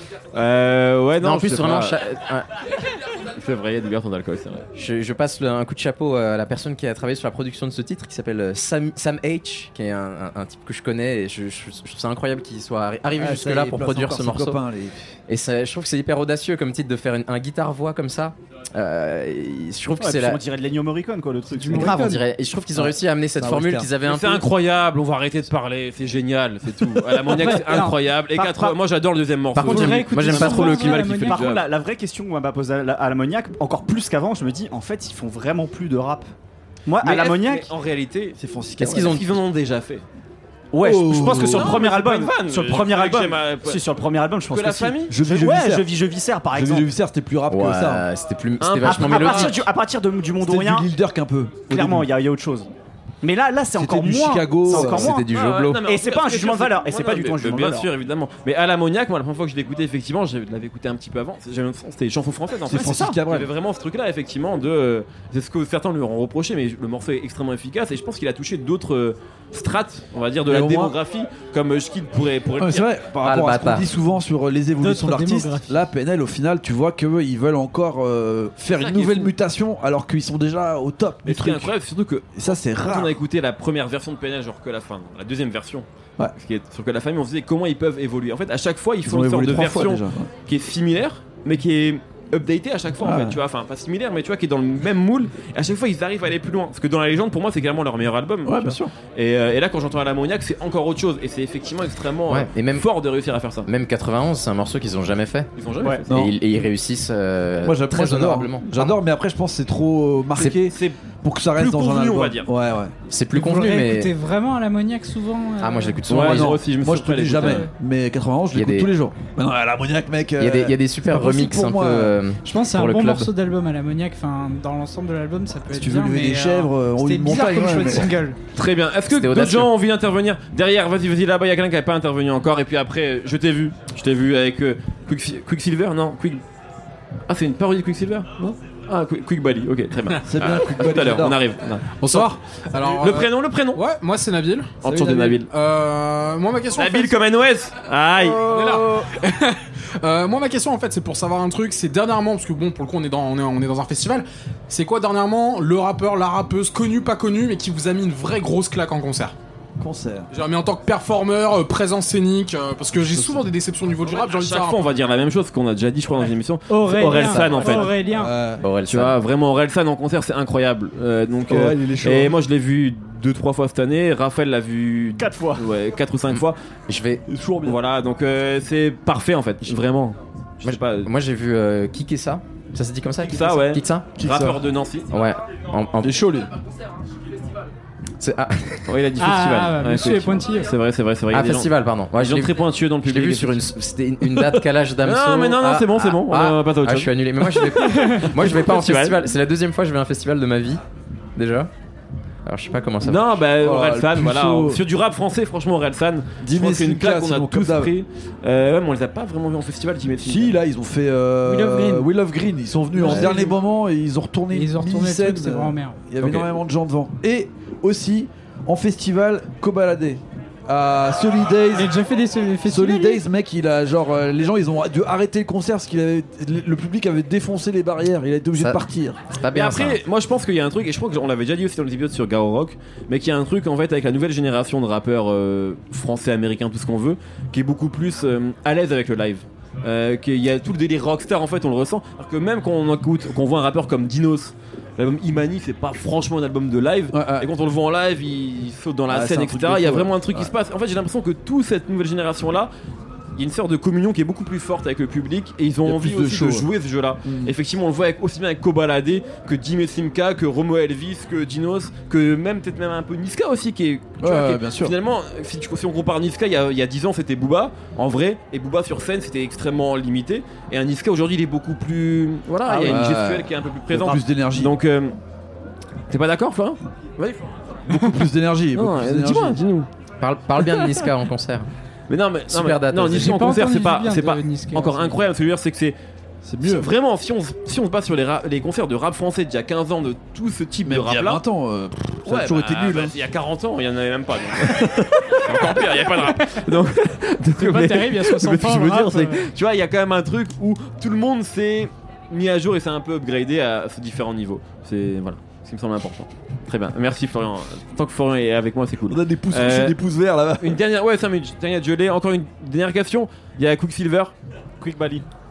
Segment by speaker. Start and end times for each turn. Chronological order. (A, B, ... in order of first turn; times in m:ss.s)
0:00.3-0:02.0 A
0:01.2-0:02.5 B
0:03.3-0:04.6 A
0:04.7-0:14.6 B
0:13.2-0:15.0 C
0:15.3-0:20.4 B
0:20.0-0:22.0 D
0:21.5-0:22.2 E
0:21.8-0:24.4 B
0:22.7-0:23.9 C
0:24.0-0:31.6 A
0:27.2-0:28.0 E
0:28.3-0:28.8 D
0:29.5-0:31.0 B
0:29.7-0:31.5 E
0:31.1-0:36.3 D
0:36.8-0:37.7 D
0:37.0-0:40.0 A
0:38.4-0:39.4 C
0:38.8-0:39.2 B
0:40.7-0:46.9 D
0:40.8-0:41.8 C
0:41.3-0:43.8 A
0:44.5-0:45.1 A
0:45.1-0:45.9 C
0:46.5-0:48.0 C
0:47.5-0:49.7 B
0:48.6-0:49.6 A
0:48.8-0:50.9 D
0:50.4-0:52.1 C
0:51.7-0:52.7 D
0:53.2-0:55.3 D
0:53.7-0:55.1 C
0:54.7-0:55.8 B
0:55.3-1:12.9 A
0:55.8-0:57.9 D
1:02.7-1:03.5 C
1:02.7-1:03.2 D
1:10.4-1:11.0 C
1:12.6-1:21.7 C
1:13.2-1:13.9 B
1:14.8-1:15.8 E
1:18.7-1:19.3 A
1:21.2-1:22.3 A
1:22.3-1:23.2 C
1:22.8-1:43.7 A
1:29.0-1:30.3 C
1:33.0-1:33.4 C
1:38.4-1:38.9 C
1:42.3-1:45.5 B
1:45.6-1:46.2 A
1:46.1-1:46.3 C
1:46.1-1:48.9 B
1:47.6-1:53.0 C
1:50.6-1:51.0 A
1:51.5-1:52.5 A
1:53.1-1:54.1 B
1:53.3-1:56.1 E
1:55.6-1:56.5 B
1:56.1-1:57.7 A
1:56.1-2:02.2 C
1:57.3-1:57.7 E
1:58.5-1:58.9 B
2:00.4-2:03.3 B
2:02.4-2:08.4 E
2:05.7-2:08.1 C
2:08.5-2:16.4 A
2:09.1-2:09.7 B
2:17.3-2:22.2 A
2:20.2-2:21.4 C
2:22.0-2:24.8 F
2:23.0-2:23.8 A
2:24.8-2:25.4 C
2:24.8-2:25.5 A
2:25.5-2:27.1 F
2:26.7-2:28.5 A
2:28.1-2:29.1 C
2:28.5-2:39.3 F
2:39.8-2:40.3 C
2:40.3-2:44.8 F
2:43.0-2:43.5 C
2:44.0-2:47.9 A
2:46.7-2:48.3 E
2:47.3-2:47.6 B
2:47.7-2:48.6 C
2:48.6-2:49.2 B
2:48.9-2:56.6 A
2:51.5-2:52.3 C
2:55.2-2:55.6 D
2:56.4-2:57.2 B
2:57.3-2:57.7 C
2:57.6-3:01.1 A
3:00.6-3:04.2 B
3:03.2-3:05.1 A
3:04.2-3:04.6 C
3:05.1-3:06.1 B
3:06.0-3:06.5 C
3:08.2-3:09.0 B
3:08.9-3:13.6 A
3:09.2-3:10.7 E
3:11.3-3:20.8 B
3:15.0-3:19.2 A
3:17.9-3:18.2 E
3:21.4-3:21.7 B
3:22.4-3:23.4 B
3:23.0-3:30.5 A
3:23.5-3:24.8 C
3:26.4-3:27.9 C
3:30.2-3:41.9 C
3:31.4-3:32.1 E
3:32.9-3:33.6 E
3:34.5-3:36.0 E
3:36.2-3:36.5 A
3:41.7-3:43.2 E
3:42.6-3:49.2 C
3:49.4-3:50.0 B
3:49.5-4:12.7 A
4:07.1-4:07.5 C
4:09.1-4:10.5 C
4:13.4-4:35.2 A
4:15.8-4:16.7 C
4:17.2-4:17.5 C
4:24.2-4:25.0 C
4:32.6-4:33.2 D
4:32.8-4:34.8 C
4:36.1-4:39.9 A
4:37.9-4:39.6 C
4:40.2-4:41.7 B
4:42.1-4:46.0 A
4:42.5-4:43.4 B
4:43.2-4:45.3 E
4:46.4-4:46.9 C
4:46.6-4:51.4 A
4:50.8-4:53.1 C
4:52.2-5:10.0 A
4:54.6-4:55.3 C
4:57.6-4:59.5 E
5:09.1-5:10.8 C
5:10.6-5:14.3 A
5:14.8-5:15.2 D